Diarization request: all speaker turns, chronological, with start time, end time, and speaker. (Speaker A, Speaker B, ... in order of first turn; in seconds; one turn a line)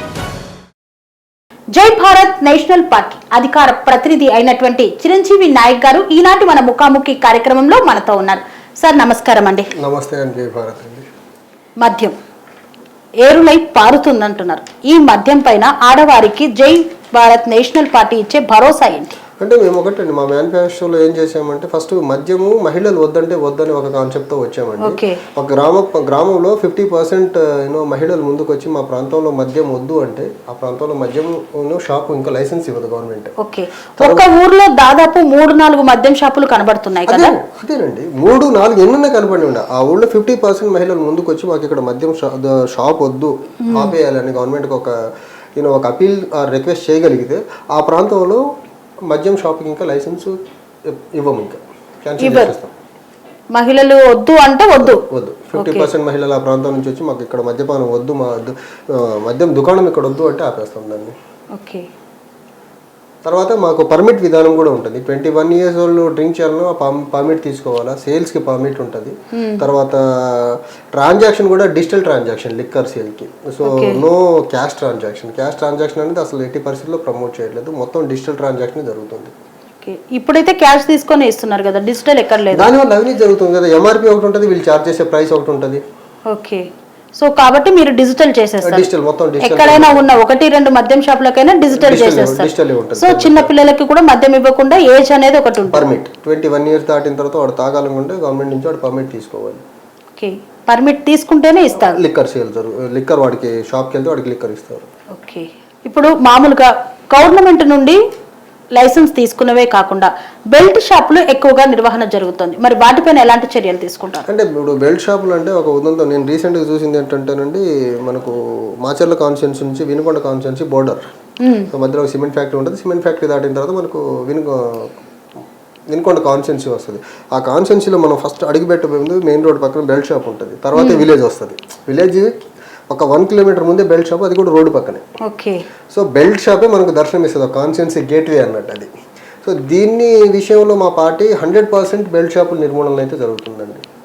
Speaker A: 1.7-9.7
Speaker B: 9.8-11.1
Speaker A: 11.8-12.2
Speaker A: 13.2-19.1
Speaker B: 19.4-33.3
Speaker A: 24.8-25.2
Speaker A: 33.4-37.3
Speaker B: 34.0-34.3
Speaker B: 37.1-44.9
Speaker A: 43.6-44.0
Speaker B: 45.6-48.4
Speaker B: 49.1-52.7
Speaker A: 52.2-52.5
Speaker A: 53.5-55.0
Speaker B: 54.8-61.1
Speaker A: 55.5-55.9
Speaker A: 61.5-61.9
Speaker B: 63.2-79.3
Speaker A: 69.3-69.7
Speaker A: 73.6-74.0
Speaker A: 79.8-82.7
Speaker B: 82.5-85.8
Speaker A: 86.3-88.9
Speaker B: 88.6-90.1
Speaker A: 89.4-95.9
Speaker B: 91.7-93.5
Speaker B: 95.7-99.6
Speaker A: 100.2-102.0
Speaker B: 101.7-104.9
Speaker A: 105.1-108.0
Speaker A: 108.8-114.3
Speaker B: 114.3-121.0
Speaker A: 121.4-121.7
Speaker B: 121.7-125.0
Speaker B: 125.9-132.4
Speaker A: 130.8-131.1
Speaker B: 132.9-135.0
Speaker A: 135.2-135.6
Speaker B: 135.9-138.9
Speaker B: 139.4-143.8